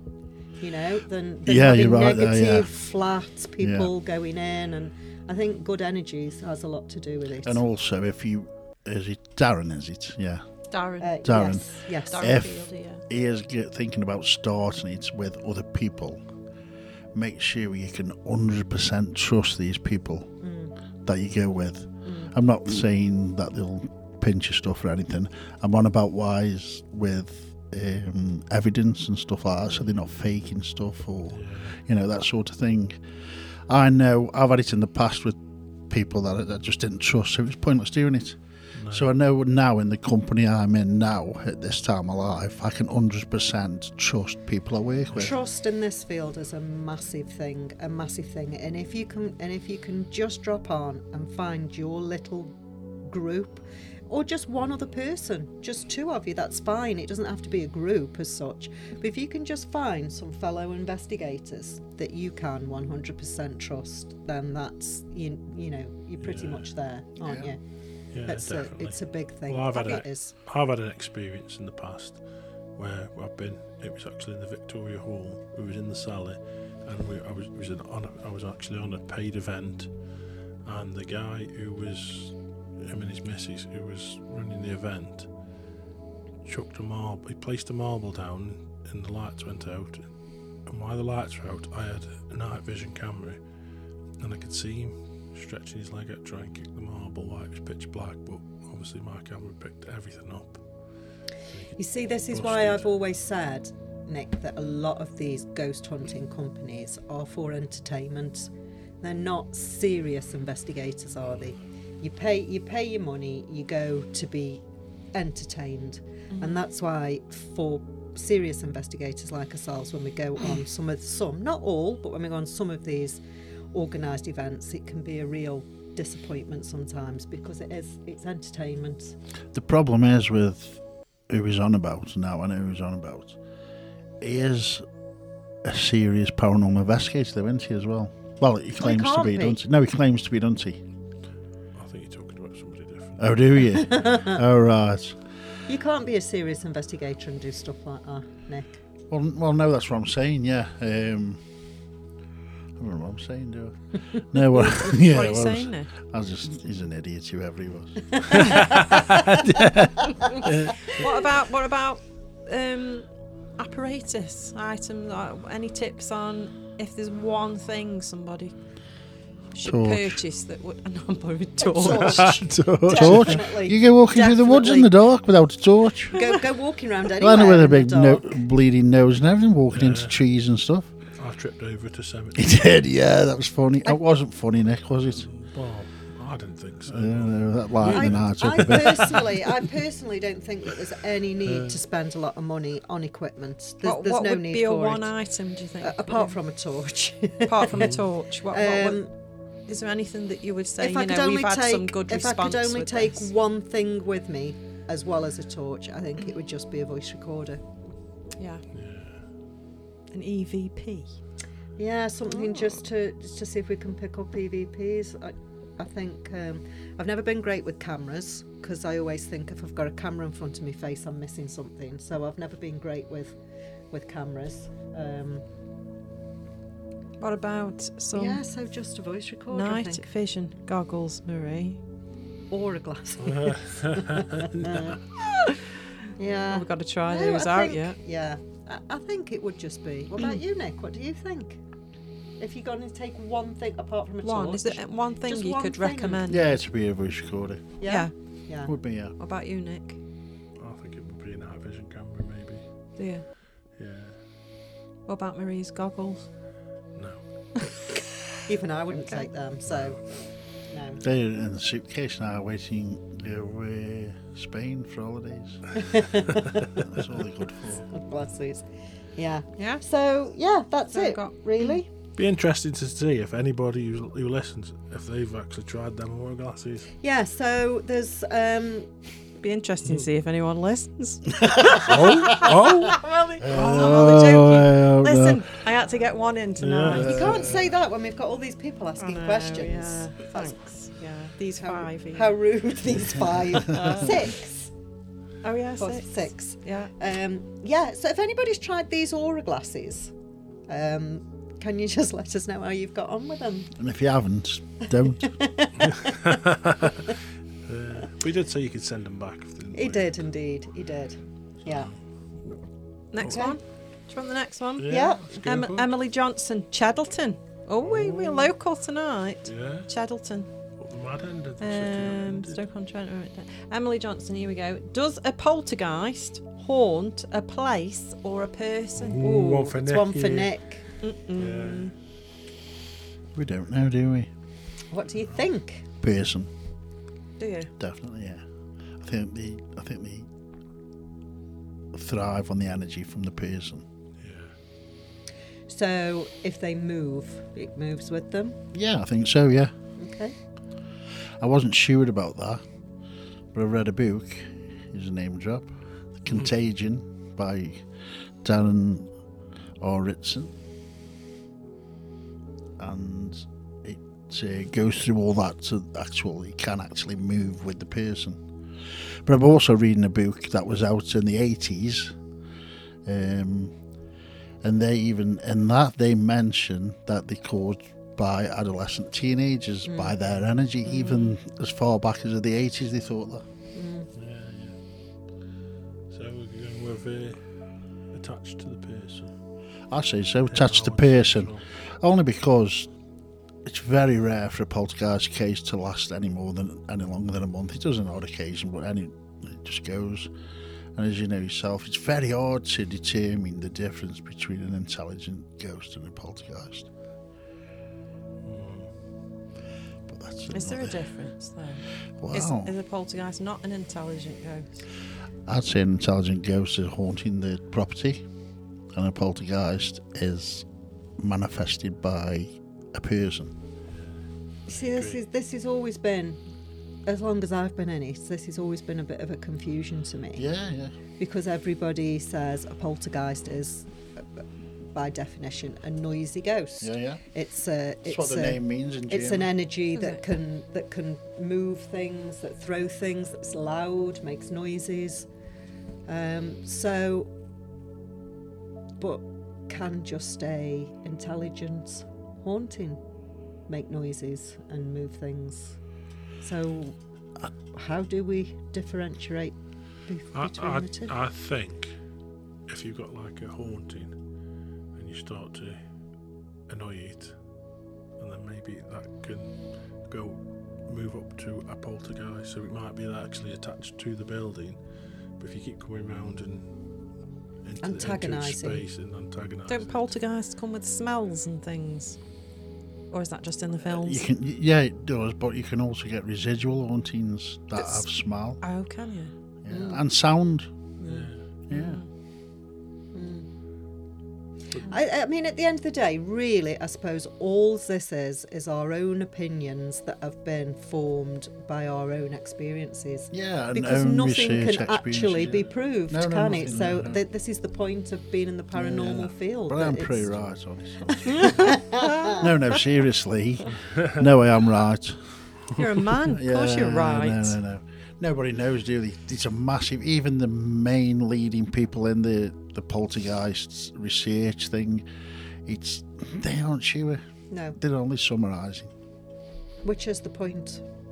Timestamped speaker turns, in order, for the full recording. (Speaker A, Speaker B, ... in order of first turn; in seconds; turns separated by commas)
Speaker A: 0.6-7.6, Speaker B: 1.5-2.7, Speaker B: 3.6-3.9, Speaker B: 7.4-10.4, Speaker C: 10.7-11.4, Speaker A: 11.0-12.4, Speaker B: 11.2-16.2, Speaker C: 12.1-13.0, Speaker B: 17.1-20.3, Speaker A: 20.4-20.7, Speaker B: 21.1-33.0, Speaker A: 22.1-22.3, Speaker D: 31.3-31.8, Speaker B: 33.6-38.4, Speaker D: 38.8-39.1, Speaker B: 38.9-45.4, Speaker A: 45.1-52.5, Speaker A: 53.0-67.6, Speaker D: 66.2-66.7, Speaker B: 67.2-67.5, Speaker D: 68.1-79.9, Speaker A: 68.3-70.3, Speaker D: 80.6-85.3, Speaker D: 86.5-90.1, Speaker D: 90.7-93.4, Speaker D: 94.2-100.6, Speaker D: 101.5-101.8, Speaker A: 101.8-108.5, Speaker D: 102.3-102.8, Speaker A: 109.0-114.6, Speaker A: 115.1-123.2, Speaker C: 116.3-116.6, Speaker A: 123.7-129.2, Speaker B: 129.5-133.4, Speaker B: 134.2-134.9, Speaker B: 135.6-140.8, Speaker A: 138.8-139.6, Speaker D: 141.7-143.5, Speaker B: 143.2-145.2, Speaker A: 143.8-144.4, Speaker A: 145.7-148.8, Speaker B: 149.1-151.4, Speaker B: 152.8-158.7, Speaker C: 154.5-155.9, Speaker D: 158.3-159.8, Speaker B: 159.3-160.5, Speaker C: 160.3-168.6, Speaker D: 160.4-161.0, Speaker C: 169.5-172.3, Speaker B: 169.6-170.2, Speaker A: 171.6-174.9, Speaker D: 171.9-173.4, Speaker B: 172.2-176.2, Speaker A: 176.1-178.4, Speaker B: 177.2-180.9, Speaker D: 179.7-180.2, Speaker D: 181.2-182.6, Speaker B: 182.4-185.3, Speaker D: 185.2-189.4, Speaker B: 186.9-189.2, Speaker A: 187.8-195.1, Speaker D: 191.4-191.8, Speaker C: 193.8-196.4, Speaker A: 195.8-199.1, Speaker C: 197.5-199.0, Speaker D: 197.7-198.1, Speaker C: 199.7-203.3, Speaker A: 200.8-207.6, Speaker C: 208.4-208.6, Speaker D: 208.7-209.2, Speaker C: 210.1-211.1, Speaker A: 211.8-223.3, Speaker C: 212.3-212.7, Speaker A: 223.9-225.4, Speaker C: 227.2-228.4, Speaker A: 228.1-230.1, Speaker C: 229.5-231.8, Speaker A: 232.5-235.0, Speaker D: 233.2-235.0, Speaker A: 236.2-241.6, Speaker C: 236.5-238.0, Speaker A: 242.4-246.4, Speaker C: 244.2-246.5, Speaker B: 246.3-247.7, Speaker A: 247.8-248.7, Speaker C: 247.9-248.1, Speaker B: 248.7-249.2, Speaker C: 249.2-250.0, Speaker D: 250.6-252.6, Speaker C: 253.0-253.2, Speaker D: 253.8-254.2, Speaker C: 255.1-256.3, Speaker D: 256.9-257.2, Speaker A: 258.5-260.0, Speaker A: 260.7-261.0, Speaker B: 261.0-267.9, Speaker A: 265.8-266.5, Speaker A: 267.9-271.9, Speaker C: 269.6-269.8, Speaker C: 270.9-271.8, Speaker D: 272.2-276.9, Speaker A: 277.0-278.9, Speaker C: 279.4-287.4, Speaker B: 281.5-282.3, Speaker D: 281.7-284.5, Speaker B: 283.4-285.4, Speaker D: 286.6-287.7, Speaker B: 286.9-287.6, Speaker A: 286.9-290.5, Speaker C: 289.0-292.4, Speaker A: 291.6-294.7, Speaker C: 293.6-294.3, Speaker C: 295.4-296.9, Speaker A: 295.8-300.1, Speaker A: 300.7-303.7, Speaker B: 303.8-305.4, Speaker A: 305.1-306.2, Speaker D: 305.8-310.2, Speaker A: 309.7-311.9, Speaker C: 313.1-320.5, Speaker A: 313.2-313.6, Speaker D: 314.8-315.9, Speaker A: 314.9-315.3, Speaker D: 317.8-318.5, Speaker D: 319.4-319.9, Speaker D: 320.8-322.6, Speaker C: 321.6-329.3, Speaker D: 329.0-330.5, Speaker A: 329.1-330.8, Speaker C: 331.0-331.9, Speaker D: 331.4-331.9, Speaker B: 333.3-334.3, Speaker A: 334.9-335.9, Speaker B: 336.0-336.5, Speaker C: 337.4-337.7, Speaker B: 337.8-338.4, Speaker B: 339.0-340.3, Speaker B: 341.9-343.9, Speaker D: 344.2-344.5, Speaker A: 345.7-348.6, Speaker B: 348.7-349.7, Speaker A: 350.0-350.4, Speaker B: 351.4-352.6, Speaker B: 353.5-357.9, Speaker B: 358.4-359.1, Speaker B: 359.8-360.5, Speaker B: 362.8-368.4, Speaker B: 368.9-372.2, Speaker B: 373.1-373.8, Speaker B: 374.6-383.5, Speaker A: 379.9-380.1, Speaker C: 380.9-381.4, Speaker A: 383.7-384.1, Speaker D: 384.1-384.8, Speaker D: 386.1-387.5, Speaker D: 388.1-389.3, Speaker B: 389.9-392.9, Speaker D: 390.5-391.6, Speaker B: 393.6-400.3, Speaker B: 401.0-406.9, Speaker D: 408.4-408.9, Speaker B: 410.1-411.0, Speaker C: 410.5-414.9, Speaker B: 412.2-412.7, Speaker B: 415.5-418.2, Speaker B: 418.9-420.7, Speaker B: 421.2-423.5, Speaker D: 424.7-425.2, Speaker A: 424.7-426.4, Speaker A: 427.1-430.4, Speaker B: 430.4-430.9, Speaker A: 431.2-434.4, Speaker A: 434.9-445.3, Speaker B: 436.8-437.2, Speaker B: 438.1-439.5, Speaker C: 439.9-440.2, Speaker A: 446.1-447.3, Speaker A: 449.0-453.0, Speaker A: 453.7-455.8, Speaker A: 456.4-457.0, Speaker A: 457.6-461.1, Speaker D: 460.3-461.9, Speaker D: 462.7-464.2, Speaker D: 464.9-465.8, Speaker D: 466.7-467.4, Speaker D: 468.2-474.8, Speaker D: 475.4-476.7, Speaker D: 477.6-480.1, Speaker A: 477.8-478.8, Speaker C: 479.7-482.2, Speaker C: 483.1-484.2, Speaker B: 483.9-488.6, Speaker C: 487.8-488.1, Speaker C: 488.6-489.3, Speaker B: 489.6-490.7, Speaker A: 489.7-490.0, Speaker D: 491.1-491.5, Speaker B: 491.7-492.0, Speaker C: 491.7-492.1, Speaker A: 493.1-493.5, Speaker A: 494.8-510.3, Speaker B: 503.3-507.2, Speaker B: 508.7-511.8, Speaker A: 511.1-512.5, Speaker B: 512.3-515.2, Speaker C: 515.8-517.6, Speaker B: 516.2-525.1, Speaker B: 525.6-527.2, Speaker A: 527.5-527.8, Speaker B: 527.8-528.9, Speaker A: 529.8-530.8